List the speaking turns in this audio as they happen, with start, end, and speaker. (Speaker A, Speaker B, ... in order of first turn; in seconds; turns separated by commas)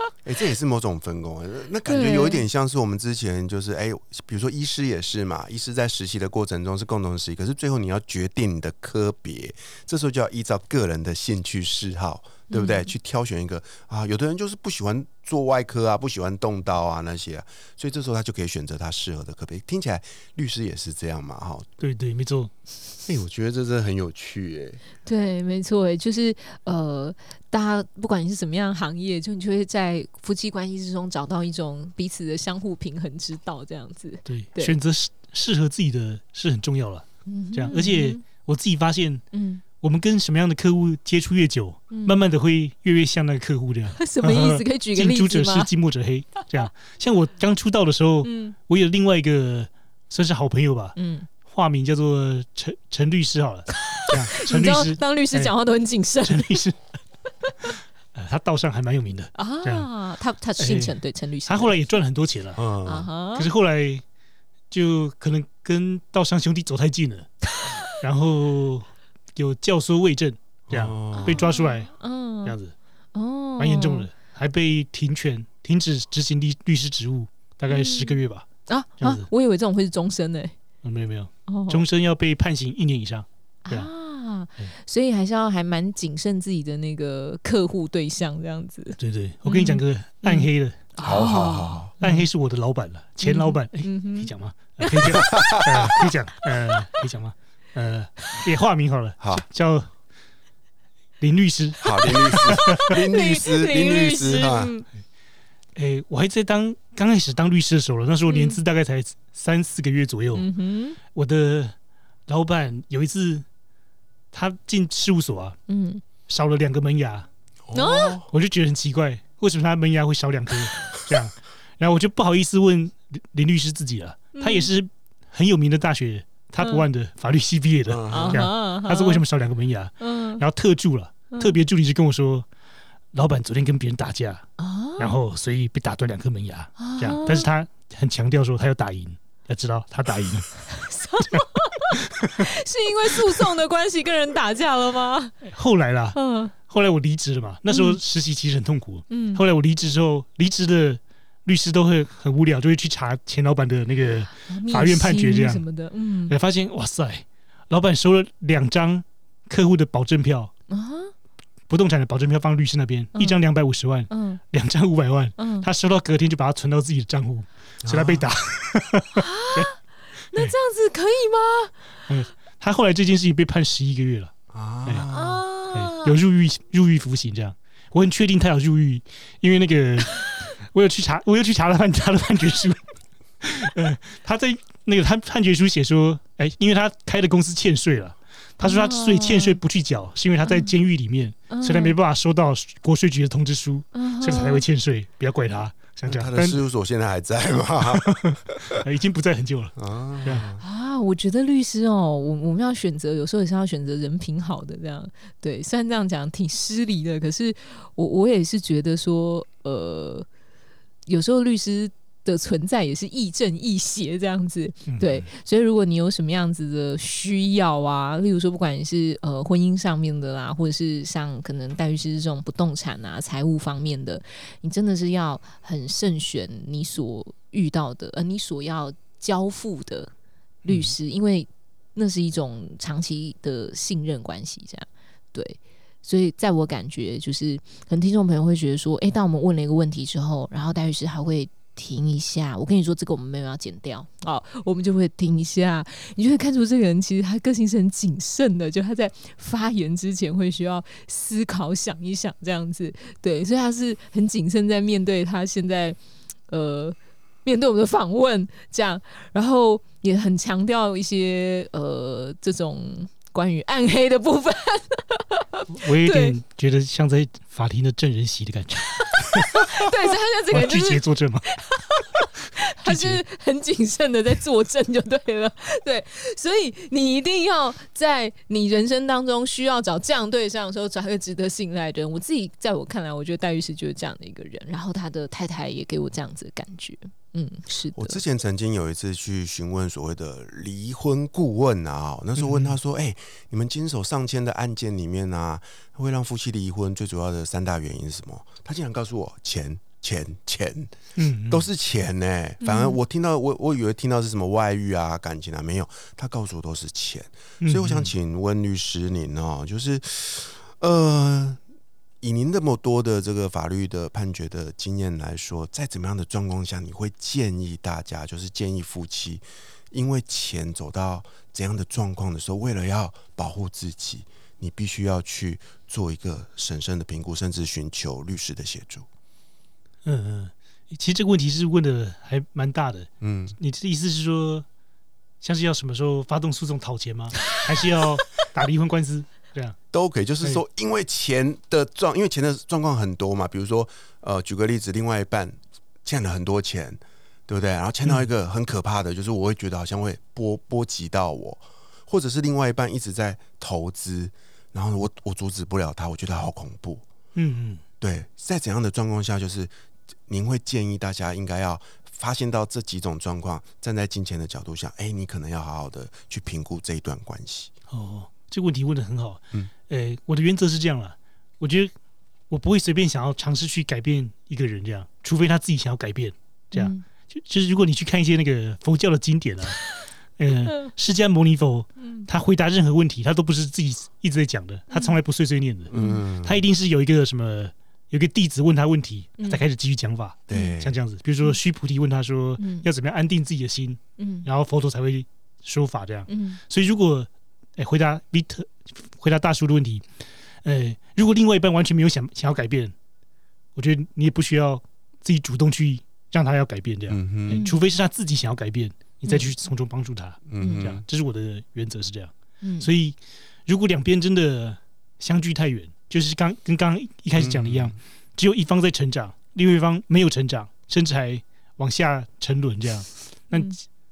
Speaker A: 0.2-21.7, Speaker B: 1.9-2.4, Speaker B: 12.5-12.9, Speaker C: 21.8-22.5, Speaker A: 23.1-24.8, Speaker B: 25.1-34.7, Speaker C: 34.3-39.2, Speaker B: 37.2-38.2, Speaker B: 39.3-39.6, Speaker C: 39.8-55.5, Speaker B: 41.9-42.2, Speaker B: 44.0-45.7, Speaker B: 48.2-48.5, Speaker B: 51.0-51.3, Speaker B: 53.7-56.6, Speaker C: 56.2-56.8, Speaker B: 57.4-57.7, Speaker C: 58.1-59.9, Speaker B: 59.4-61.8, Speaker C: 60.6-62.6, Speaker A: 62.6-63.1, Speaker B: 62.9-63.5, Speaker C: 63.4-64.0, Speaker C: 64.7-67.3, Speaker C: 68.0-71.9, Speaker A: 70.7-71.4, Speaker B: 71.2-72.6, Speaker C: 72.4-72.7, Speaker B: 73.1-74.1, Speaker C: 73.6-78.5, Speaker B: 77.7-80.5, Speaker C: 79.0-79.3, Speaker C: 80.8-83.9, Speaker B: 81.5-81.8, Speaker B: 83.7-92.3, Speaker C: 89.0-90.9, Speaker A: 91.0-91.9, Speaker C: 92.0-99.9, Speaker B: 93.2-96.0, Speaker A: 95.1-95.8, Speaker C: 101.2-102.8, Speaker A: 101.8-104.7, Speaker B: 102.3-104.9, Speaker C: 105.8-110.5, Speaker B: 108.3-108.6, Speaker B: 110.3-111.0, Speaker C: 111.1-111.7, Speaker C: 112.3-113.4, Speaker C: 114.3-115.6, Speaker B: 115.7-116.0, Speaker C: 116.3-117.3, Speaker A: 117.7-118.3, Speaker B: 117.7-118.2, Speaker C: 118.3-132.4, Speaker B: 124.3-124.7, Speaker A: 127.9-128.5, Speaker B: 128.1-129.2, Speaker B: 130.0-130.4, Speaker B: 131.3-131.6, Speaker C: 133.1-134.4, Speaker B: 134.6-135.1, Speaker C: 135.0-140.6, Speaker B: 136.8-137.5, Speaker B: 140.7-145.4, Speaker C: 142.1-142.4, Speaker C: 145.4-155.6, Speaker B: 146.1-146.5, Speaker B: 147.7-148.0, Speaker B: 149.1-149.4, Speaker B: 154.5-156.3, Speaker C: 156.3-160.5, Speaker B: 160.7-161.1, Speaker C: 161.7-169.7, Speaker B: 163.1-163.4, Speaker B: 164.1-164.4, Speaker B: 165.4-165.7, Speaker A: 167.8-168.3, Speaker B: 169.1-171.8, Speaker C: 172.1-174.3, Speaker A: 174.5-175.4, Speaker B: 175.1-176.2, Speaker C: 175.7-182.8, Speaker C: 183.4-196.6, Speaker B: 188.6-189.6, Speaker B: 190.4-190.7, Speaker B: 191.5-191.9, Speaker B: 193.9-194.6, Speaker A: 196.1-198.8, Speaker C: 197.9-200.4, Speaker A: 199.8-200.6, Speaker B: 200.6-210.3, Speaker B: 211.1-230.1, Speaker C: 214.9-215.2, Speaker C: 230.7-230.9, Speaker B: 230.7-256.0, Speaker B: 256.5-266.4, Speaker C: 265.7-269.6, Speaker B: 269.0-288.2, Speaker C: 270.5-271.5, Speaker C: 272.8-273.2, Speaker A: 287.9-311.6, Speaker C: 292.4-292.7, Speaker C: 301.2-301.6, Speaker B: 302.6-303.0, Speaker C: 307.6-308.1, Speaker A: 312.2-329.1, Speaker C: 330.1-334.6, Speaker A: 333.2-333.6, Speaker C: 335.4-339.8, Speaker A: 339.9-357.0, Speaker C: 357.4-357.8, Speaker A: 358.0-359.7, Speaker A: 360.3-367.7, Speaker C: 367.9-371.9, Speaker C: 372.5-400.0, Speaker B: 376.7-377.0, Speaker B: 382.0-382.3, Speaker B: 384.9-385.1, Speaker A: 385.9-386.6, Speaker B: 385.9-386.2, Speaker A: 390.5-390.9, Speaker B: 390.5-390.8, Speaker B: 392.6-392.9, Speaker B: 394.2-394.4, Speaker B: 396.3-396.6, Speaker C: 400.6-402.9, Speaker C: 403.8-413.1, Speaker A: 407.1-407.6, Speaker B: 407.5-407.8, Speaker A: 410.5-411.0, Speaker B: 410.6-410.9, Speaker B: 412.6-412.9, Speaker C: 413.7-423.8, Speaker A: 417.4-417.9, Speaker B: 423.5-423.8